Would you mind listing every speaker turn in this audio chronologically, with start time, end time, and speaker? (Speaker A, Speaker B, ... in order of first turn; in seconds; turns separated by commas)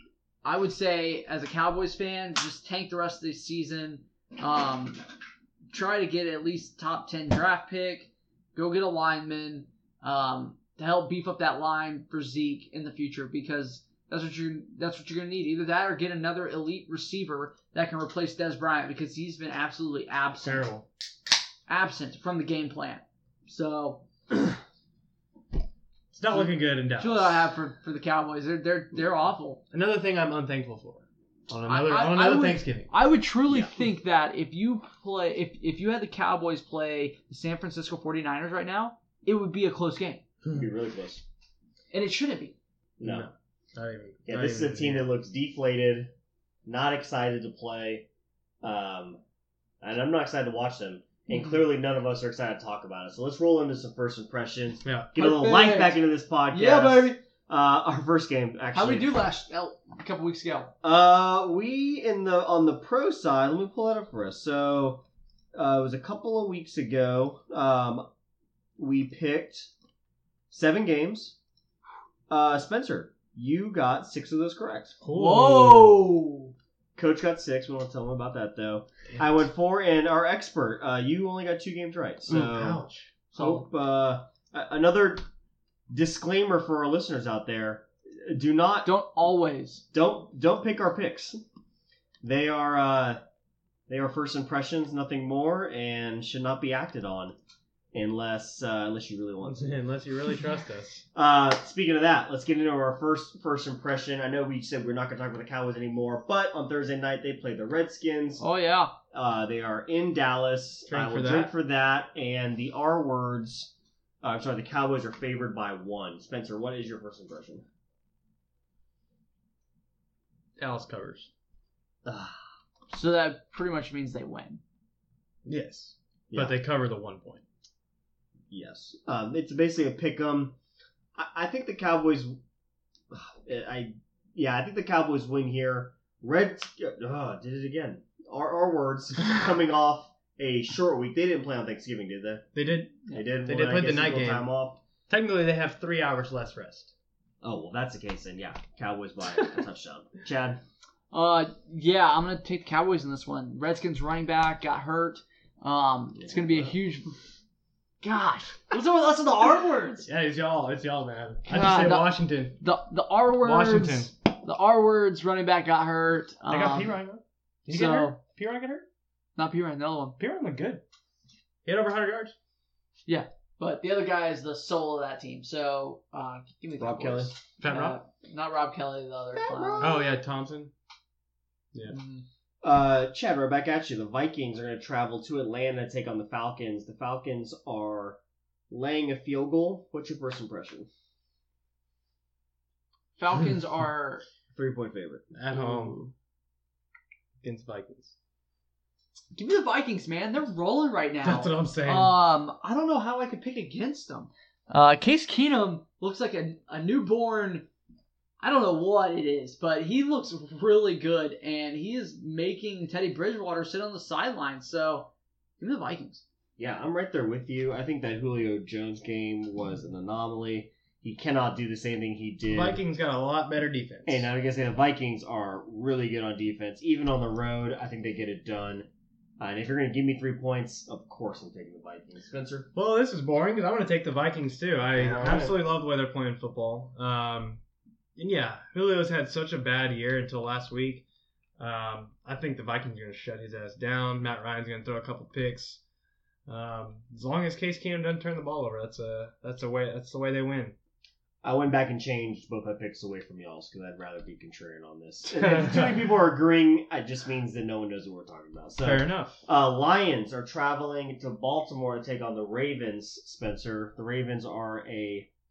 Speaker A: 0.4-5.0, Speaker A: 5.7-20.7, Speaker B: 20.4-20.9, Speaker A: 21.7-24.5, Speaker B: 26.1-27.5, Speaker A: 26.3-29.6, Speaker B: 29.7-32.9, Speaker A: 31.7-40.2, Speaker C: 40.5-41.2, Speaker A: 41.9-42.6, Speaker C: 43.0-43.3, Speaker B: 43.0-45.1, Speaker C: 44.3-46.1, Speaker C: 46.6-48.1, Speaker C: 48.6-49.2, Speaker C: 49.8-59.2, Speaker B: 54.9-55.1, Speaker A: 55.1-57.2, Speaker A: 58.7-60.7, Speaker C: 60.8-68.1, Speaker C: 68.8-69.7, Speaker C: 70.5-71.4, Speaker C: 72.3-75.0, Speaker B: 75.0-76.0, Speaker A: 75.1-76.5, Speaker C: 77.0-82.8, Speaker B: 82.3-83.1, Speaker A: 83.3-83.7, Speaker C: 83.3-85.2, Speaker C: 85.9-88.9, Speaker A: 88.8-89.8, Speaker C: 89.9-91.4, Speaker C: 92.2-93.2, Speaker C: 93.9-97.4, Speaker C: 97.9-99.8, Speaker B: 99.5-101.0, Speaker C: 101.1-108.5, Speaker A: 108.4-109.0, Speaker C: 109.1-117.7, Speaker B: 110.9-111.5, Speaker B: 120.6-121.3, Speaker C: 122.0-122.4, Speaker A: 122.9-124.6, Speaker B: 125.5-127.4, Speaker C: 126.3-126.5, Speaker C: 128.5-130.6, Speaker C: 131.2-132.4, Speaker C: 133.1-142.5, Speaker B: 142.5-144.5, Speaker C: 143.1-144.8, Speaker B: 145.1-146.9, Speaker C: 147.4-150.6, Speaker A: 151.1-157.2, Speaker C: 156.2-156.8, Speaker A: 158.0-160.1, Speaker B: 160.1-162.6, Speaker A: 161.5-167.0, Speaker B: 163.4-164.1, Speaker B: 166.5-168.9, Speaker A: 167.7-168.2, Speaker A: 169.4-170.2, Speaker B: 170.2-170.8, Speaker B: 171.7-172.3, Speaker A: 173.1-180.0, Speaker C: 176.8-177.3, Speaker B: 177.6-178.0, Speaker C: 179.3-180.1, Speaker B: 179.8-180.7, Speaker A: 181.9-182.2, Speaker C: 182.6-190.9, Speaker A: 193.2-194.2, Speaker C: 194.5-196.0, Speaker B: 195.3-196.1, Speaker B: 197.4-198.2, Speaker A: 199.3-207.7, Speaker B: 201.2-202.2, Speaker A: 208.4-216.2, Speaker C: 216.6-222.8, Speaker B: 222.5-224.3, Speaker C: 224.1-232.7, Speaker B: 232.7-237.6, Speaker C: 234.9-235.6, Speaker B: 238.2-241.0, Speaker B: 241.6-245.8, Speaker B: 246.5-250.8, Speaker C: 251.4-265.3, Speaker B: 255.3-256.1, Speaker B: 258.8-259.4